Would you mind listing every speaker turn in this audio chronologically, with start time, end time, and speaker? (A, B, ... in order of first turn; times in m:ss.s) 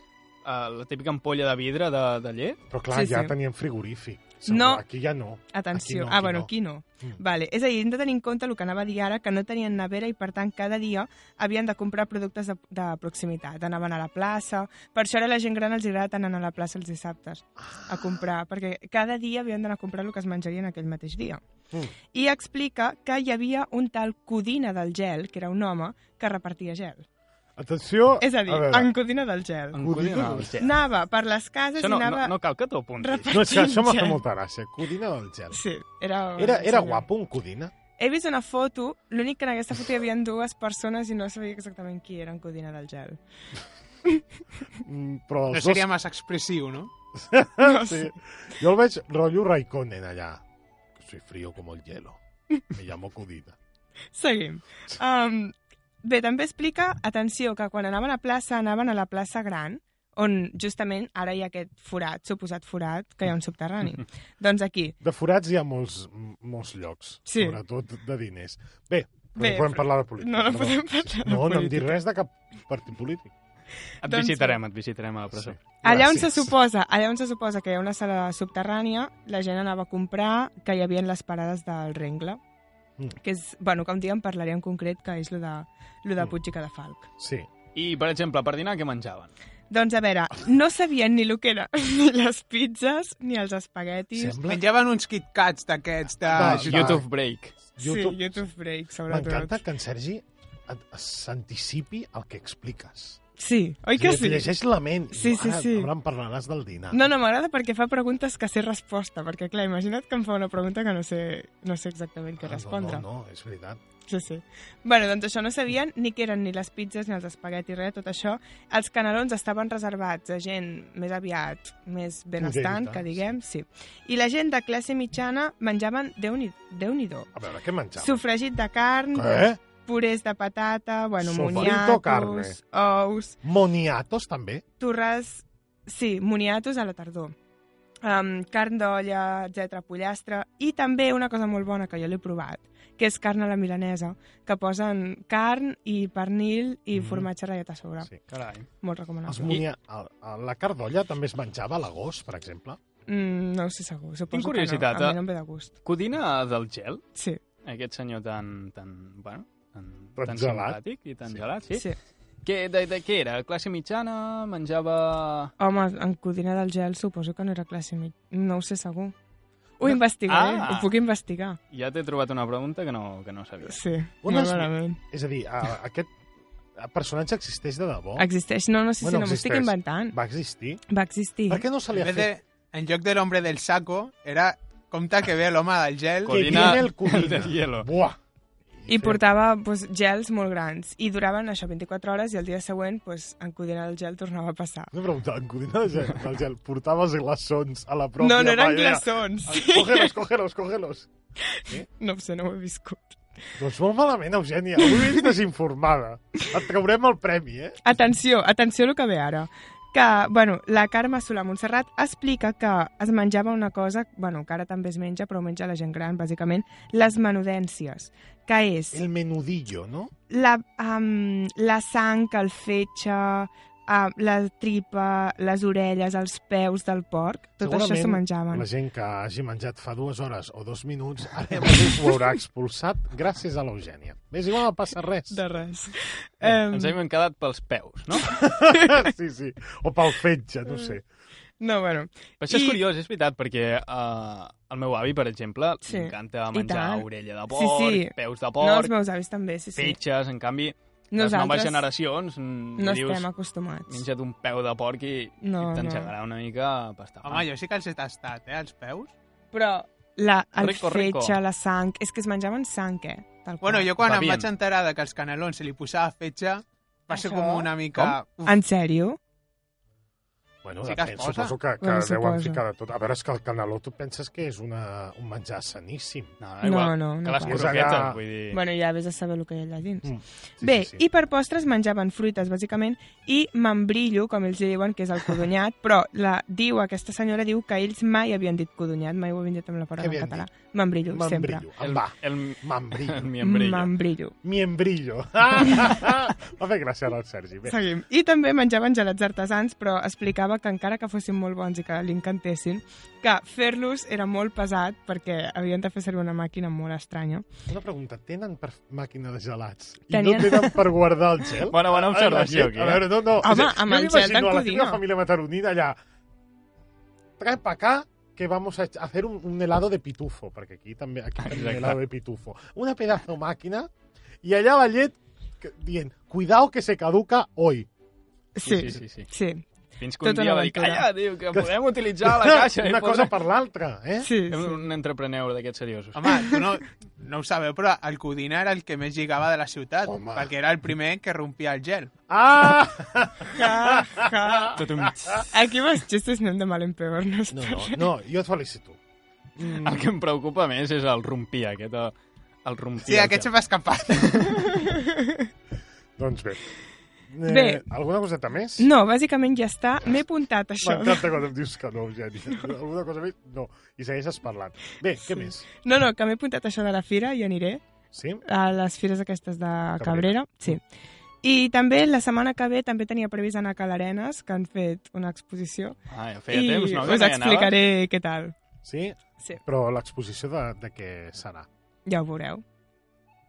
0:00.4-0:02.6 A
0:02.7-0:07.2 B
0:02.9-0:03.3 C
0:04.4-0:04.8 C
0:05.5-0:21.4 C
0:17.6-0:18.2 B
0:22.1-0:27.0 C
0:27.6-0:28.9 B
0:28.2-0:29.8 C
0:29.7-0:30.7 A
0:29.8-0:30.6 B
0:30.6-0:32.3 C
0:31.8-0:33.4 A
0:33.0-0:34.2 C
0:33.3-0:35.6 B
0:35.5-0:37.0 C
0:36.4-0:37.7 B
0:38.0-0:43.2 C
0:44.8-0:45.8 B
0:45.5-0:46.9 D
0:47.2-0:50.4 B
0:47.6-0:48.1 C
0:51.0-0:52.2 B
0:52.7-0:53.6 B
0:54.1-1:04.9 C
1:05.0-1:13.3 B
1:07.3-1:07.6 C
1:09.4-1:12.0 C
1:14.0-1:15.6 A
1:14.0-1:14.6 C
1:15.3-1:16.6 B
1:15.8-1:22.4 C
1:23.2-1:27.1 C
1:27.2-1:27.5 B
1:27.7-1:29.3 A
1:29.7-1:34.4 C
1:34.1-1:34.6 B
1:34.4-1:36.9 D
1:36.3-1:37.5 A
1:36.3-1:37.1 B
1:37.8-1:38.4 B
1:37.8-1:39.6 C
1:39.1-1:43.2 B
1:43.4-1:44.5 C
1:43.9-1:47.0 B
1:45.1-1:45.9 C
1:46.9-1:53.0 C
1:52.4-1:53.8 B
1:54.1-2:07.3 C
2:02.4-2:03.3 B
2:07.3-2:08.2 B
2:08.0-2:13.4 C
2:09.1-2:09.6 B
2:11.2-2:12.6 B
2:13.4-2:14.6 B
2:14.8-2:17.3 C
2:18.0-2:28.1 C
2:26.9-2:27.3 B
2:28.3-2:28.7 A
2:28.8-2:29.5 C
2:29.2-2:32.8 B
2:33.1-2:35.7 C
2:34.3-2:35.2 A
2:35.8-2:37.0 A
2:37.1-2:37.4 C
2:37.6-2:41.9 A
2:40.2-2:41.4 B
2:42.4-2:45.5 A
2:45.6-2:49.1 C
2:49.8-2:51.6 C
2:49.8-2:50.9 A
2:51.7-2:53.8 A
2:53.6-2:55.0 C
2:54.2-2:56.1 B
2:56.8-2:58.3 B
2:58.2-3:00.2 C
2:59.0-3:00.8 B
3:00.9-3:01.6 C
3:01.5-3:02.3 B
3:01.9-3:06.8 D
3:06.2-3:07.9 A
3:06.2-3:08.2 B
3:08.8-3:09.2 B
3:08.9-3:14.9 C
3:14.9-3:21.1 B
3:18.2-3:20.1 C
3:21.5-3:23.2 C
3:23.6-3:27.8 B
3:24.8-3:25.3 C
3:27.8-3:39.0 C
3:38.9-3:40.1 B
3:40.3-3:48.6 C
3:47.6-3:55.4 B
3:55.3-3:57.0 C
3:56.7-3:58.3 A
3:58.3-4:01.0 B
4:01.6-4:02.8 C
4:02.4-4:08.9 A
4:05.8-4:10.0 C
4:09.8-4:13.3 A
4:11.1-4:11.8 C
4:12.8-4:14.0 C
4:13.9-4:17.5 A
4:15.4-4:16.1 C
4:17.2-4:19.1 D
4:19.5-4:23.9 C
4:20.6-4:21.4 A
4:23.6-4:28.6 D
4:24.0-4:24.5 A
4:27.1-4:27.8 C
4:28.4-4:29.2 C
4:30.6-4:36.3 B
4:30.8-4:31.5 D
4:31.8-4:32.6 C
4:36.4-4:38.6 A
4:36.6-4:37.9 C
4:37.4-4:38.2 B
4:38.5-4:51.6 C
4:40.0-4:41.0 B
4:50.0-4:50.5 B
4:51.1-4:53.3 B
4:51.8-4:53.9 A
4:53.4-4:54.4 C
4:54.4-4:57.8 B
4:57.6-5:07.5 C
5:07.7-5:16.0 B
5:10.1-5:10.8 C
5:11.7-5:13.1 A
5:13.4-5:15.0 C
5:17.4-5:23.9 B
5:21.4-5:22.0 A
5:24.4-5:27.9 B
5:28.6-5:29.6 C
5:28.6-5:29.3 A
5:30.0-5:33.3 A
5:30.2-5:31.1 C
5:32.2-5:34.3 B
5:34.2-5:34.8 C
5:34.5-5:36.5 A
5:36.1-5:42.1 D
5:40.0-5:40.5 B
5:42.3-5:44.7 B
5:43.5-5:44.8 C
5:44.8-5:45.4 A
5:45.5-5:48.0 C
5:47.5-5:49.0 B
5:49.6-5:50.1 B
5:49.8-5:52.1 A
5:52.6-5:53.5 A
5:53.0-5:54.5 D
5:54.1-5:54.5 A
5:54.8-5:55.5 C
5:56.2-5:56.6 B
5:57.3-5:58.9 B
5:57.4-5:57.8 C
5:58.8-6:01.3 C
6:00.8-6:05.6 B
6:05.2-6:07.8 C
6:08.1-6:08.4 B
6:08.4-6:10.8 C
6:10.0-6:10.4 B
6:11.4-6:16.0 C
6:16.1-6:17.8 A
6:16.5-6:18.5 C
6:18.8-6:21.7 B
6:22.0-6:22.6 C